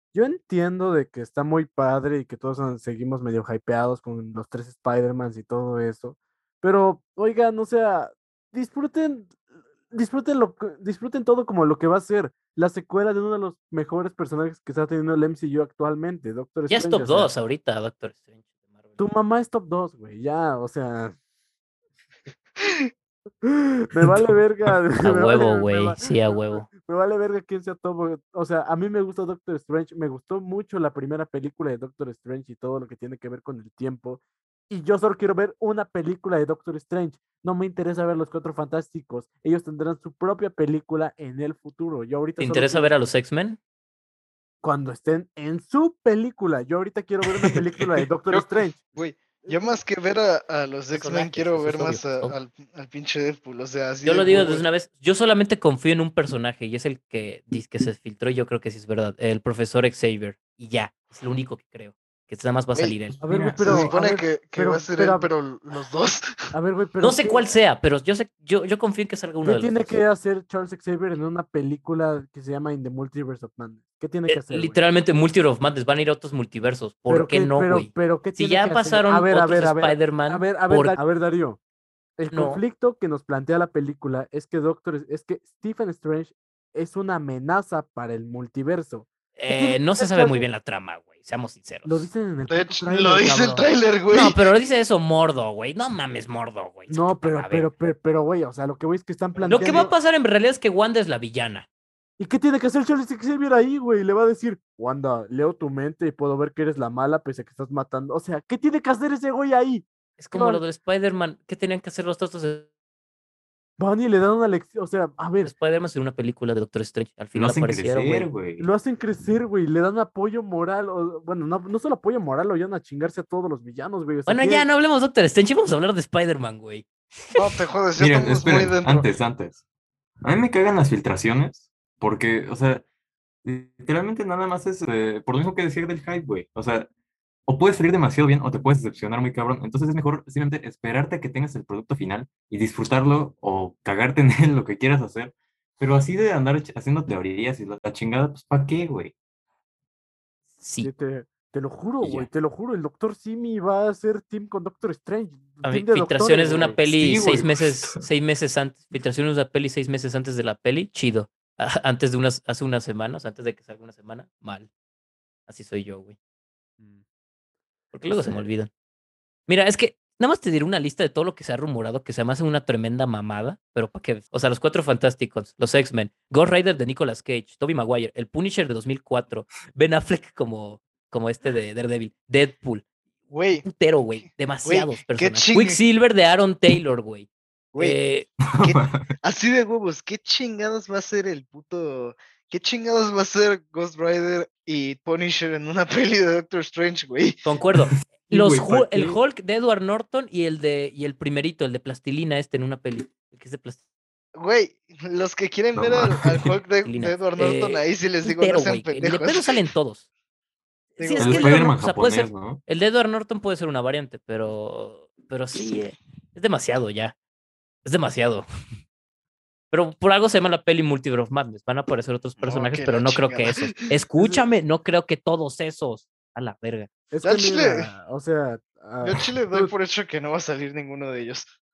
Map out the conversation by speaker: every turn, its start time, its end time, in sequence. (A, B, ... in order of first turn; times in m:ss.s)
0:00.1-0:17.3 A
0:16.7-0:18.4 B
0:19.0-0:21.2 A
0:22.6-0:22.9 C
0:23.4-0:42.9 A
0:25.0-0:26.7 B
0:42.4-0:43.6 B
0:44.6-0:48.8 A
0:48.3-0:54.6 C
0:50.9-0:52.4 B
0:54.0-1:03.2 B
1:03.2-1:03.9 D
1:03.2-1:05.3 A
1:03.6-1:06.3 C
1:06.5-1:07.5 A
1:07.0-1:10.0 B
1:09.4-1:14.8 A
1:14.3-1:21.0 B
1:17.1-1:21.6 A
1:22.2-1:30.4 A
1:22.3-1:22.6 B
1:29.4-1:32.1 B
1:31.8-1:33.7 A
1:32.5-1:34.4 C
1:34.1-1:37.7 B
1:36.9-1:39.9 A
1:39.3-1:39.9 C
1:39.5-1:41.6 B
1:42.2-1:50.6 A
1:50.2-1:52.7 B
1:53.8-1:55.5 A
1:55.4-1:58.3 B
1:57.4-1:58.7 D
1:58.6-2:04.7 A
2:04.3-2:07.4 B
2:07.4-2:09.1 C
2:08.0-2:09.6 D
2:10.2-2:12.8 D
2:13.4-2:16.9 D
2:17.5-2:29.1 D
2:30.6-2:30.9 B
2:30.8-2:36.8 A
2:35.6-2:44.7 B
2:36.9-2:38.0 D
2:45.5-2:46.2 B
2:47.9-2:48.7 B
2:49.5-3:02.8 B
3:03.3-3:03.6 C
3:03.6-3:08.3 B
3:04.6-3:05.8 C
3:07.7-3:08.0 C
3:08.4-3:09.2 D
3:08.6-3:17.4 C
3:17.4-3:23.8 B
3:17.9-3:19.2 D
3:24.4-3:29.6 C
3:25.8-3:26.5 D
3:26.8-3:30.0 B
3:31.0-3:37.2 B
3:31.0-3:31.5 C
3:31.2-3:32.6 D
3:37.8-3:38.4 B
3:39.7-3:46.9 B
3:42.4-3:43.8 C
3:47.1-3:49.7 A
3:47.2-3:47.9 C
3:49.0-3:51.5 C